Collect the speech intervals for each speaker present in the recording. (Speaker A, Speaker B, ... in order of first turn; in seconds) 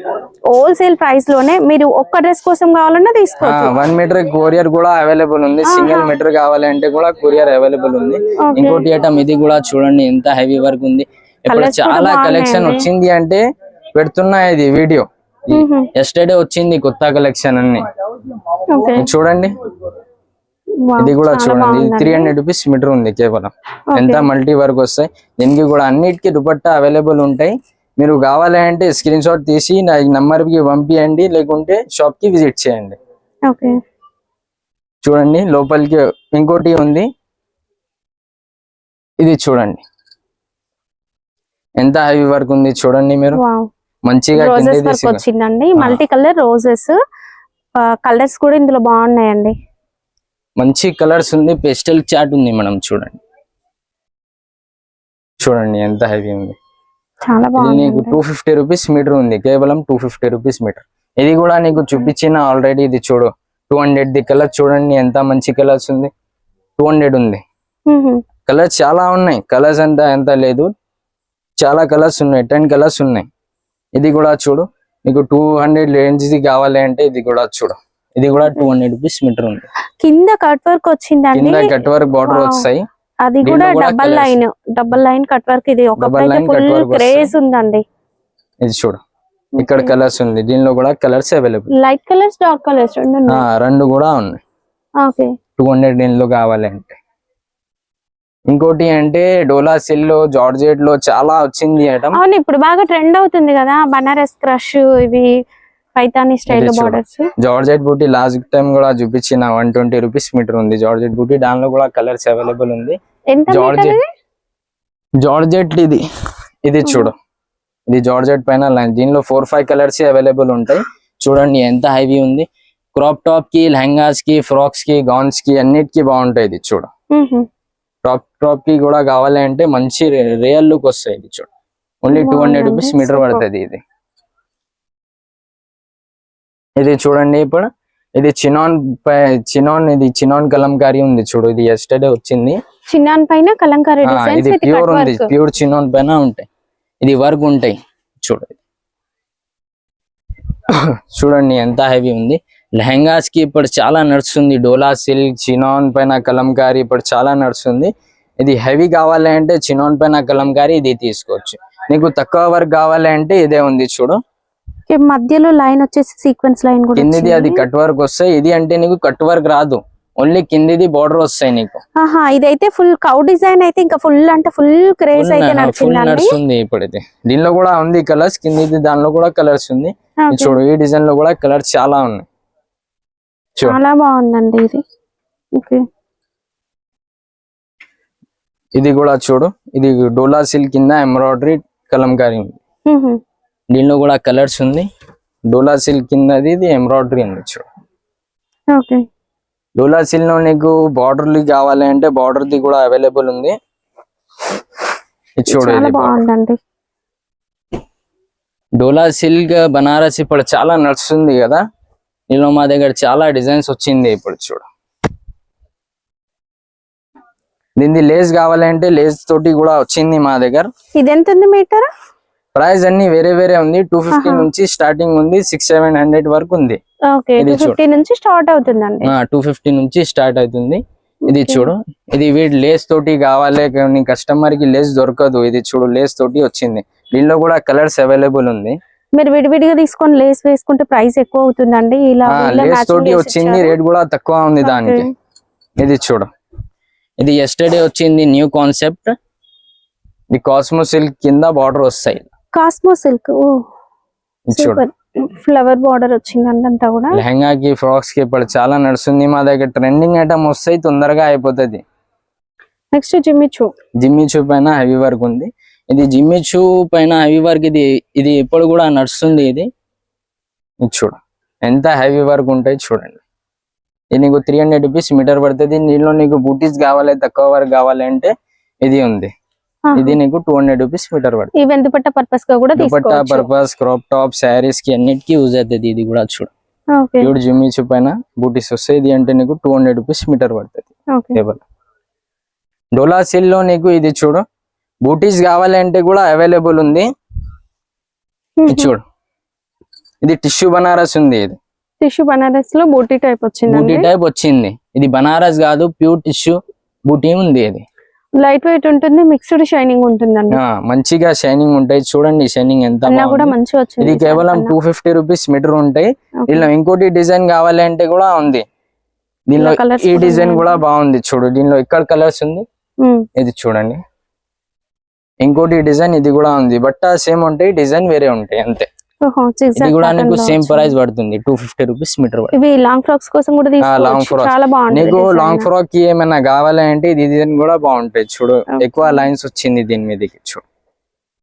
Speaker A: 0.5-3.7, 5.7-6.1, 8.4-8.8, 11.5-12.8, 15.5-15.9, 18.7-19.1, 20.9-22.3, 23.9-24.2, 33.5-33.8, 43.4-43.7, 44.3-47.0, 47.9-49.5, 57.2-58.2, 67.9-68.2, 80.0-81.7, 82.2-82.7, 83.2-87.8, 89.5-89.9, 91.8-93.4, 95.0-95.3, 102.2-105.3, 106.0-107.3, 113.3-114.0, 116.8-117.1, 127.1-127.5, 132.1-133.4, 142.9-145.3, 164.9-167.7, 172.0-176.3, 180.3-180.6, 183.7-184.8, 185.6-185.8, 192.9-193.2, 198.7-199.0, 205.5-206.6, 220.9-221.9, 224.1-224.5, 227.1-229.1, 231.3-231.7, 239.2-243.7, 244.6-245.0, 252.5-253.6, 254.6-257.2, 262.9-263.7, 279.9-280.1, 281.6-283.5, 286.9-287.3, 298.6-298.9, 302.0-304.1, 308.4-310.6, 313.1-314.7, 319.6-320.8, 323.0-323.3, 329.2-330.9, 332.5-335.7, 338.8-339.2
Speaker B: 3.4-13.4, 13.9-17.8, 18.9-19.6, 21.0-33.0, 35.0-37.1, 39.2-39.8, 41.8-43.4, 44.0-45.2, 50.6-53.2, 55.4-56.5, 57.6-66.1, 66.8-67.4, 68.5-70.7, 71.6-73.3, 74.0-79.7, 81.3-82.8, 83.4-84.4, 86.0-87.3, 88.6-89.0, 89.6-91.7, 93.3-94.4, 95.6-97.0, 98.5-102.2, 106.5-113.0, 113.5-114.0, 115.2-116.0, 116.6-117.1, 117.9-126.9, 128.0-131.5, 132.0-133.8, 136.8-142.6, 144.0-146.4, 147.0-148.6, 150.7-164.2, 166.9-171.8, 175.1-182.2, 188.8-192.6, 193.7-194.8, 195.5-197.6, 199.8-203.5, 205.4-206.2, 208.8-211.6, 212.3-214.7, 217.8-220.7, 222.5-226.8, 227.4-227.8, 229.0-238.8, 242.2-245.1, 245.8-246.3, 247.2-249.1, 250.3-252.3, 254.5-254.8, 257.1-261.8, 264.0-269.7, 270.8-273.2, 274.1-278.3, 278.8-279.3, 279.9-281.5, 282.8-286.5, 287.2-291.6, 292.9-294.4, 295.0-297.1, 298.6-299.0, 300.2-301.6, 303.7-307.8, 310.5-318.6, 319.5-322.6, 323.4-324.0, 325.4-328.9, 329.8-332.5, 333.8-340.6